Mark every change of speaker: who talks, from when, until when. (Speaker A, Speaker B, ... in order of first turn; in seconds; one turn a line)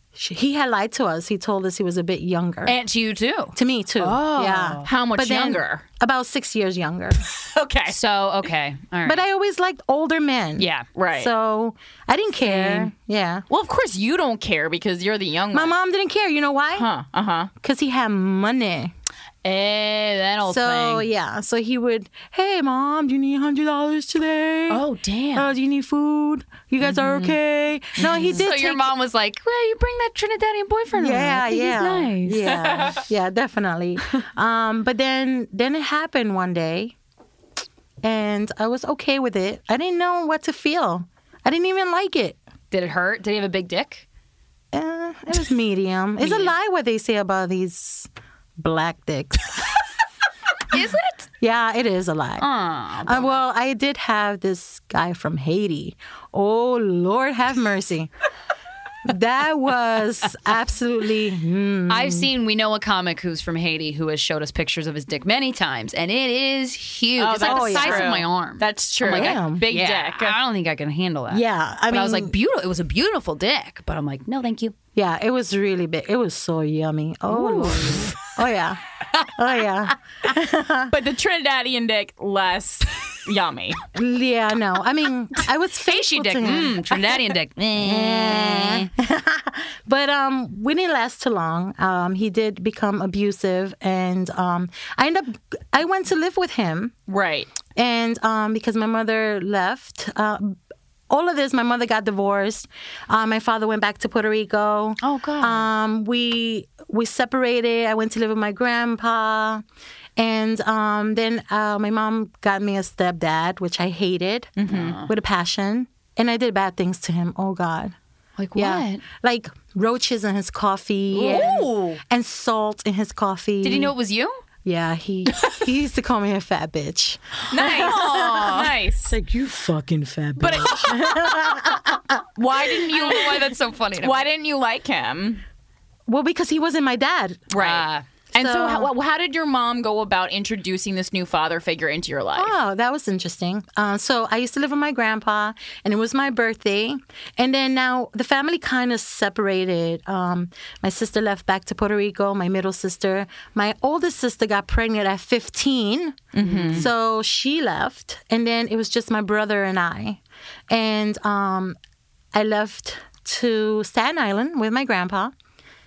Speaker A: 0.1-2.8
Speaker B: 2.6-4.9
Speaker A: 3.5-7.2
Speaker C: 4.8-5.8
Speaker C: 7.4-8.0
Speaker B: 7.9-9.2
Speaker A: 9.0-10.7
Speaker B: 10.6-10.9
Speaker C: 10.9-11.3
Speaker A: 11.2-13.4
Speaker B: 12.4-12.9
Speaker C: 13.5-15.7
Speaker A: 15.5-16.9
Speaker C: 16.7-17.5
Speaker A: 17.6-18.9
Speaker B: 19.4-21.1
Speaker A: 20.5-24.8
Speaker B: 24.7-25.5
Speaker A: 25.3-28.9
Speaker B: 26.8-27.4
Speaker C: 28.0-28.3
Speaker B: 28.0-32.5
Speaker A: 30.9-36.9
Speaker C: 32.5-33.0
Speaker A: 38.0-42.4
Speaker B: 42.7-44.0
Speaker A: 44.7-49.7
Speaker B: 46.2-46.5
Speaker B: 50.7-51.3
Speaker A: 51.4-52.5
Speaker B: 52.4-53.4
Speaker A: 53.0-58.1
Speaker A: 59.0-62.3
Speaker B: 61.9-74.8
Speaker C: 67.2-70.3
Speaker A: 67.4-68.1
Speaker A: 69.0-69.6
Speaker A: 71.3-72.3
Speaker A: 74.9-80.9
Speaker B: 77.3-78.2
Speaker C: 80.9-83.8
Speaker A: 83.9-86.9
Speaker B: 85.8-88.9
Speaker A: 87.8-96.9
Speaker C: 97.1-97.5
Speaker A: 97.7-100.6
Speaker A: 101.1-109.6
Speaker B: 105.0-105.7
Speaker A: 110.2-117.9
Speaker C: 114.6-115.0
Speaker B: 114.7-115.1
Speaker B: 118.4-119.0
Speaker A: 118.5-123.9
Speaker B: 121.1-122.0
Speaker C: 121.2-121.6
Speaker B: 123.6-124.4
Speaker A: 124.6-132.2
Speaker C: 127.5-129.2
Speaker B: 127.5-128.7
Speaker C: 130.4-131.8
Speaker C: 132.3-133.5
Speaker B: 132.7-134.2
Speaker C: 134.0-135.4
Speaker A: 136.1-137.5
Speaker C: 137.5-142.5
Speaker B: 137.6-138.0
Speaker A: 138.3-138.9
Speaker A: 142.3-161.8
Speaker C: 156.3-156.9
Speaker B: 156.4-156.9
Speaker A: 162.3-165.3